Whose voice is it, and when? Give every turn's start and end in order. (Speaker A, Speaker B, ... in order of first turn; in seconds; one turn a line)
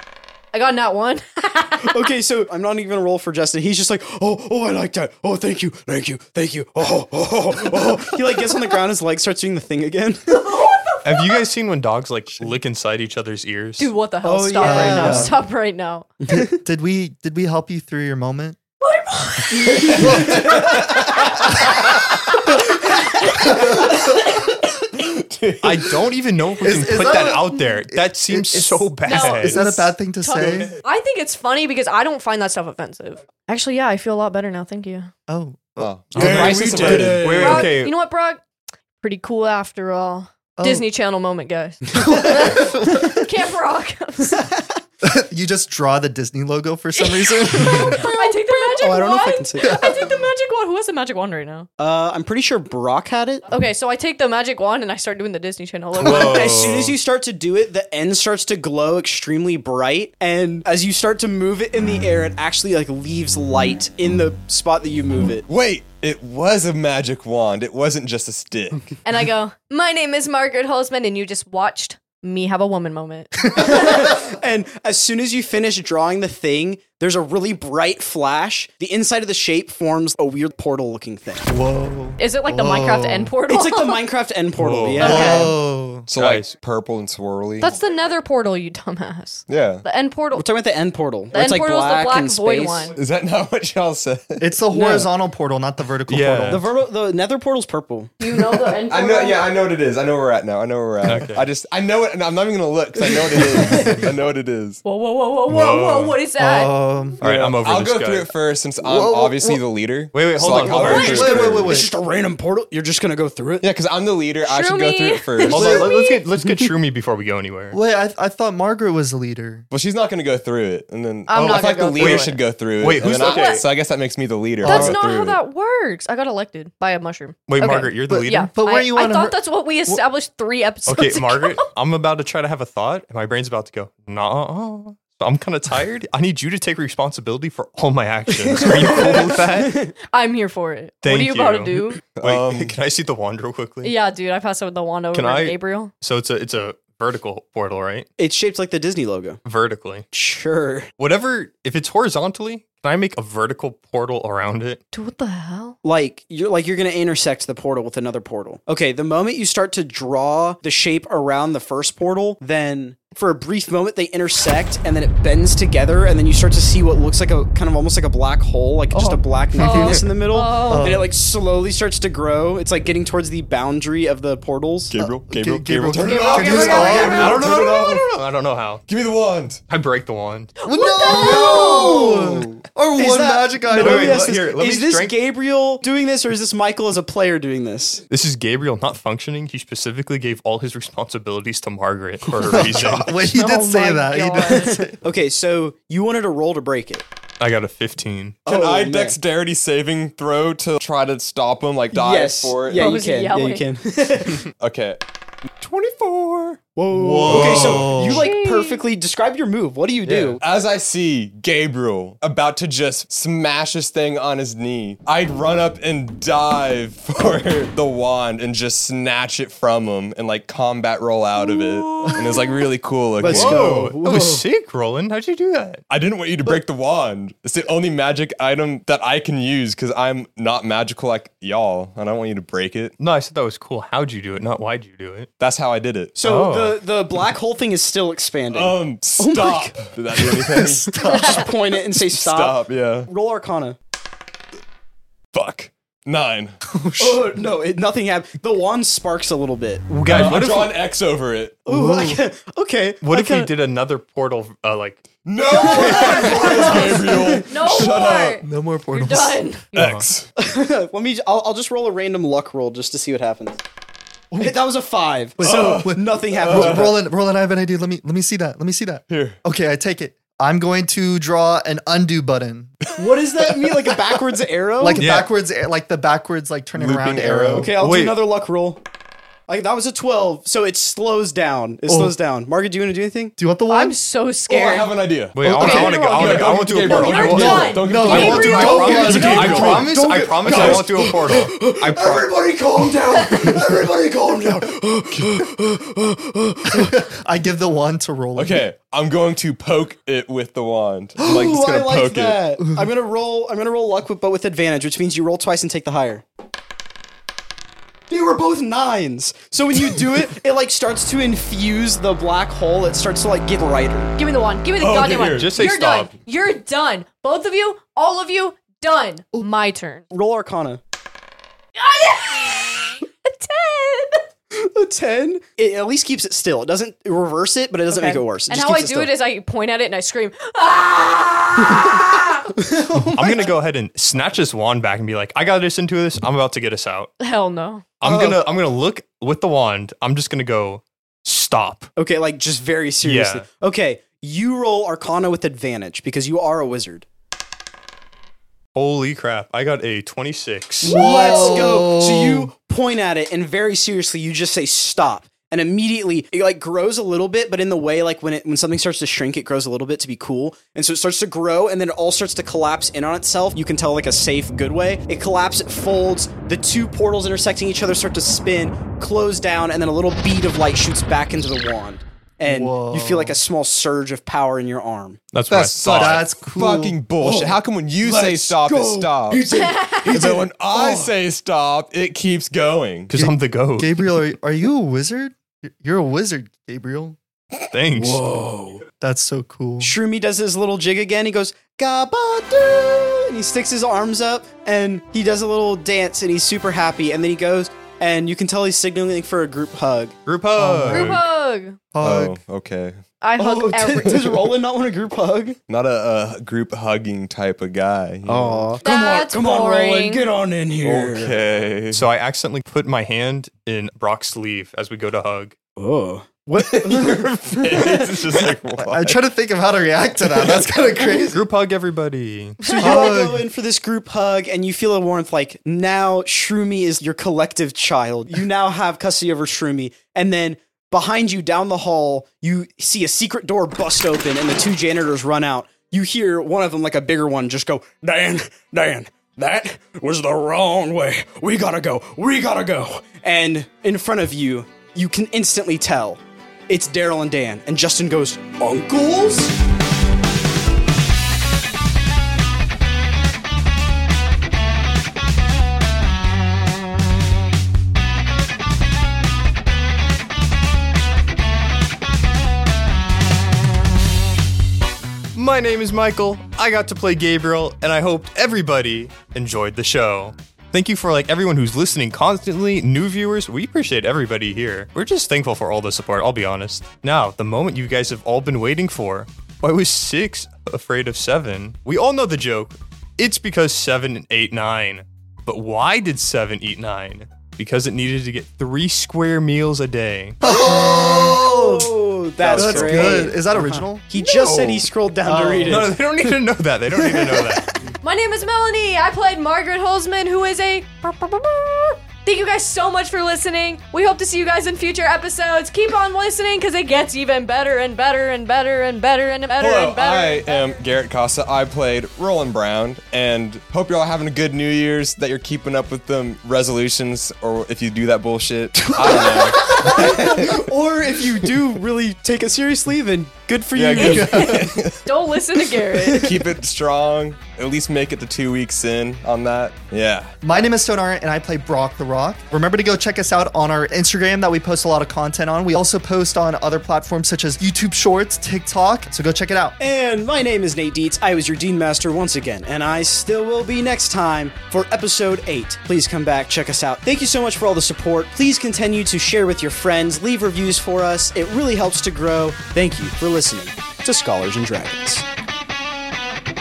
Speaker A: 0.5-2.1
Speaker B: 1.9-10.5
Speaker A: 10.3-11.4
Speaker C: 11.0-13.9
Speaker A: 13.8-16.1
Speaker B: 14.2-15.3
Speaker D: 14.6-15.4
Speaker D: 16.3-18.6
Speaker A: 18.8-20.1
Speaker B: 19.8-20.6
Speaker E: 19.8-21.0
Speaker D: 20.0-20.7
Speaker E: 24.1-24.4
Speaker E: 24.9-26.1
Speaker C: 25.6-29.9
Speaker D: 26.6-30.8
Speaker A: 29.0-35.1
Speaker D: 35.3-36.4
Speaker E: 35.8-37.6
Speaker C: 36.1-37.9
Speaker F: 36.2-37.7
Speaker B: 36.3-37.4
Speaker A: 37.4-38.4
Speaker A: 39.0-44.5
Speaker D: 40.6-40.9
Speaker D: 42.1-43.2
Speaker D: 45.0-48.1
Speaker A: 47.0-51.7
Speaker B: 47.7-49.8
Speaker D: 49.6-50.2
Speaker B: 51.8-53.4
Speaker A: 53.5-56.7
Speaker C: 56.0-57.0
Speaker B: 56.0-65.4
Speaker E: 65.5-68.9
Speaker A: 69.0-73.7
Speaker B: 73.6-81.5
Speaker D: 81.5-83.3
Speaker A: 82.2-84.0
Speaker B: 83.5-85.5
Speaker C: 84.6-85.4
Speaker A: 85.0-85.5
Speaker D: 85.0-86.1
Speaker E: 86.1-87.8
Speaker C: 86.1-86.5
Speaker A: 87.6-90.5
Speaker E: 89.5-89.8
Speaker B: 90.3-92.9
Speaker A: 91.3-93.0
Speaker E: 92.9-94.5
Speaker D: 94.4-96.7
Speaker B: 94.7-95.1
Speaker C: 96.1-96.7
Speaker B: 96.5-98.1
Speaker A: 98.2-99.5
Speaker E: 98.9-104.8
Speaker C: 101.0-101.4
Speaker A: 104.8-106.8
Speaker C: 105.5-106.2
Speaker D: 106.4-107.2
Speaker C: 107.2-108.3
Speaker E: 107.2-111.8
Speaker D: 108.8-109.6
Speaker C: 110.1-111.3
Speaker D: 110.6-111.9
Speaker B: 110.7-113.7
Speaker A: 110.8-111.3
Speaker E: 113.6-115.9
Speaker A: 114.4-116.2
Speaker C: 115.4-117.8
Speaker D: 115.5-115.9
Speaker D: 117.7-119.7
Speaker E: 119.7-125.4
Speaker A: 121.3-122.4
Speaker C: 121.3-123.7
Speaker A: 123.1-123.7
Speaker D: 124.6-125.0
Speaker A: 124.6-131.7
Speaker C: 127.5-128.5
Speaker D: 128.1-130.0
Speaker C: 130.9-139.9
Speaker B: 138.5-139.9
Speaker A: 140.1-142.0
Speaker C: 141.0-143.9
Speaker E: 142.2-142.8
Speaker A: 143.8-145.9
Speaker C: 145.1-148.1
Speaker B: 148.2-149.4
Speaker C: 149.4-150.0
Speaker B: 150.1-150.9
Speaker C: 151.0-154.8
Speaker A: 154.9-155.8
Speaker B: 155.8-174.9
Speaker D: 168.9-170.0
Speaker A: 169.6-170.9
Speaker D: 170.7-171.1
Speaker E: 174.9-178.1
Speaker D: 174.9-177.4
Speaker A: 176.0-177.4
Speaker B: 176.3-177.4
Speaker C: 177.0-178.8
Speaker E: 178.9-179.6
Speaker C: 179.7-180.5
Speaker A: 180.6-182.1
Speaker D: 180.6-184.4
Speaker B: 181.1-188.0
Speaker C: 183.7-185.2
Speaker C: 188.1-193.2
Speaker D: 192.3-195.0
Speaker A: 193.3-194.9
Speaker B: 194.5-197.1
Speaker C: 197.4-198.4
Speaker E: 198.4-203.0
Speaker B: 198.4-199.2
Speaker B: 201.9-204.5
Speaker A: 202.8-203.7
Speaker E: 204.6-205.0
Speaker E: 205.6-206.6
Speaker B: 206.7-210.4
Speaker D: 206.9-208.3
Speaker F: 207.0-207.6
Speaker E: 207.3-207.9
Speaker A: 208.0-208.8
Speaker E: 210.0-223.9
Speaker D: 222.0-222.3
Speaker B: 223.2-224.2
Speaker C: 223.2-225.8
Speaker F: 223.3-224.4
Speaker E: 225.9-233.0
Speaker C: 233.0-235.3
Speaker E: 235.4-236.2
Speaker B: 236.2-239.9
Speaker C: 236.2-236.8
Speaker E: 238.5-243.1
Speaker D: 240.2-241.5
Speaker B: 241.0-243.8
Speaker A: 241.1-241.4
Speaker E: 245.3-246.6
Speaker D: 246.7-247.3
Speaker B: 247.0-249.8
Speaker C: 249.9-250.8
Speaker E: 250.0-251.6
Speaker B: 251.7-253.5
Speaker D: 251.7-252.2
Speaker C: 253.0-255.1
Speaker E: 255.2-258.4
Speaker A: 255.6-259.7
Speaker B: 255.6-257.4
Speaker D: 257.7-259.5
Speaker C: 259.7-260.1
Speaker E: 259.7-260.3
Speaker B: 260.4-263.6
Speaker B: 264.4-267.0
Speaker D: 265.4-272.8
Speaker E: 265.4-267.0
Speaker E: 269.1-269.4
Speaker B: 273.0-275.0
Speaker D: 274.8-277.7
Speaker C: 274.9-275.3
Speaker E: 276.7-277.7
Speaker B: 277.5-278.8
Speaker C: 277.7-278.2
Speaker B: 279.5-283.4
Speaker D: 281.9-282.1
Speaker D: 283.4-284.0
Speaker A: 283.7-289.8
Speaker E: 284.5-289.9
Speaker C: 285.3-292.4
Speaker D: 287.8-289.1
Speaker F: 288.8-296.9
Speaker B: 289.5-290.9
Speaker E: 290.5-290.8
Speaker B: 292.0-293.6
Speaker B: 294.2-294.4
Speaker D: 296.7-298.6
Speaker E: 298.4-302.4
Speaker B: 301.2-306.2
Speaker B: 308.1-314.1
Speaker A: 314.2-320.0
Speaker E: 314.8-315.6
Speaker C: 315.3-316.1
Speaker B: 320.1-320.8
Speaker A: 321.8-324.2
Speaker B: 324.5-329.1
Speaker A: 327.9-332.5
Speaker B: 332.5-333.5
Speaker C: 333.0-337.1
Speaker A: 337.2-337.9
Speaker C: 338.0-341.9
Speaker B: 338.0-338.4
Speaker B: 341.9-347.1
Speaker C: 343.0-343.4
Speaker C: 348.7-351.5
Speaker D: 350.8-352.5
Speaker B: 350.8-375.2
Speaker D: 372.4-373.4
Speaker C: 375.3-376.2
Speaker E: 375.5-379.5
Speaker D: 375.8-377.0
Speaker B: 377.2-377.5
Speaker F: 378.0-380.9
Speaker B: 378.1-381.1
Speaker A: 379.6-380.1
Speaker E: 380.0-383.2
Speaker C: 383.1-384.1
Speaker D: 383.1-387.2
Speaker C: 387.7-388.2
Speaker F: 387.9-388.6
Speaker B: 388.1-388.4
Speaker D: 389.0-389.9
Speaker B: 389.8-400.2
Speaker C: 400.2-401.2
Speaker D: 400.6-401.2
Speaker A: 400.9-401.8
Speaker D: 401.9-402.4
Speaker E: 402.0-403.0
Speaker A: 403.2-404.5
Speaker B: 403.4-405.6
Speaker E: 405.7-408.8
Speaker B: 408.2-411.4
Speaker A: 408.8-410.3
Speaker E: 410.8-412.1
Speaker C: 411.9-415.6
Speaker B: 415.8-418.0
Speaker E: 416.6-419.1
Speaker C: 418.0-419.0
Speaker D: 418.8-421.4
Speaker C: 421.2-422.6
Speaker B: 422.6-449.5
Speaker D: 422.8-423.4
Speaker C: 465.3-490.4
Speaker D: 490.4-491.9
Speaker B: 490.4-496.0
Speaker E: 492.4-493.4
Speaker D: 492.5-494.1
Speaker C: 494.2-494.9
Speaker D: 495.2-496.0
Speaker C: 495.7-497.7
Speaker B: 496.9-497.7
Speaker A: 498.0-510.8
Speaker E: 509.6-520.6
Speaker B: 519.6-524.7
Speaker E: 523.7-525.0
Speaker A: 524.0-526.3
Speaker B: 526.0-526.3
Speaker E: 526.1-530.3
Speaker D: 530.4-539.8
Speaker B: 539.8-555.2